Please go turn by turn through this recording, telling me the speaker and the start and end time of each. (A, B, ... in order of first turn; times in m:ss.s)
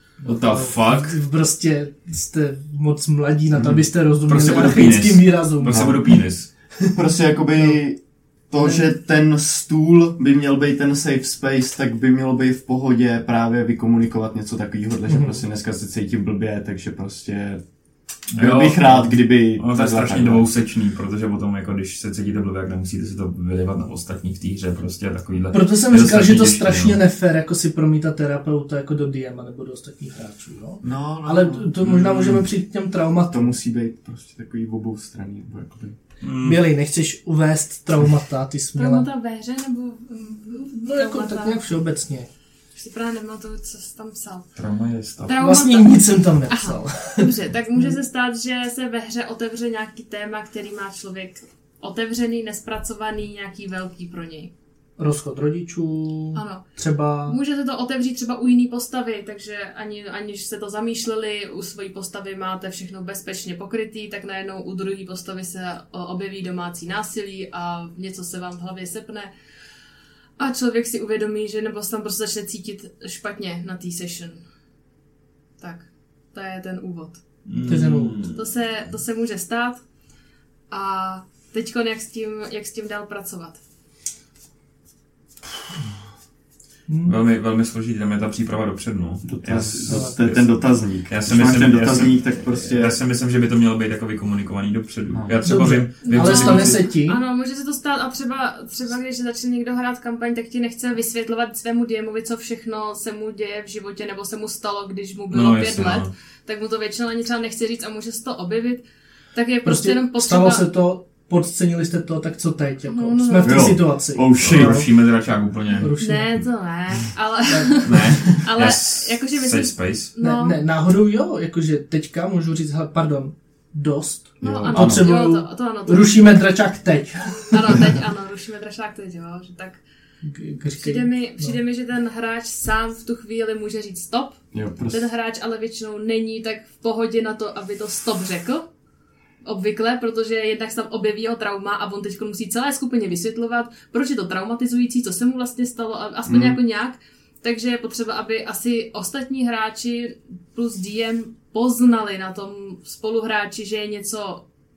0:00.2-0:06.2 A
0:00.2-0:01.2 B
0:03.5-0:03.8 C
0:04.3-0:06.5 B
0:06.9-0:17.6 C
0:08.6-0:08.9 A
0:15.1-0:15.4 A
0:18.3-0:20.5 C
0:18.3-0:27.0 B
0:25.5-0:33.6 A
0:30.8-0:32.4 C
0:31.8-0:32.4 B
0:33.3-0:36.0 C
0:36.2-0:36.6 B
0:36.4-0:39.1 A
0:38.8-0:41.6 D
0:40.9-0:42.3 A
0:42.8-0:44.5 D
0:44.6-0:45.4 B
0:45.2-0:54.5 D
0:45.4-0:48.0 A
0:55.0-0:57.4 A
0:56.3-1:09.3 D
1:10.4-1:14.4 D
1:15.6-1:17.2 D
1:17.4-1:18.4 B
1:17.7-1:18.2 A
1:18.3-1:19.8 D
1:20.7-1:23.6 D
1:26.9-1:27.1 A
1:27.0-1:36.8 B
1:29.2-1:33.0 C
1:29.9-1:30.2 A
1:35.4-1:37.2 A
1:36.0-1:50.6 D
1:45.3-1:46.1 B
1:49.6-1:54.8 A
1:52.9-1:53.8 D
1:53.4-1:54.8 C
1:54.4-1:55.9 B
1:55.8-1:56.4 A
1:56.0-2:00.6 D
1:57.5-1:58.4 A
1:57.8-2:00.1 B
2:00.2-2:07.9 A
2:04.4-2:06.3 D
2:04.4-2:04.7 B
2:04.5-2:05.1 C
2:07.5-2:09.8 D
2:10.2-2:11.6 A
2:10.8-2:18.7 D
2:14.5-2:15.0 C
2:19.4-2:34.4 D
2:26.2-2:26.6 C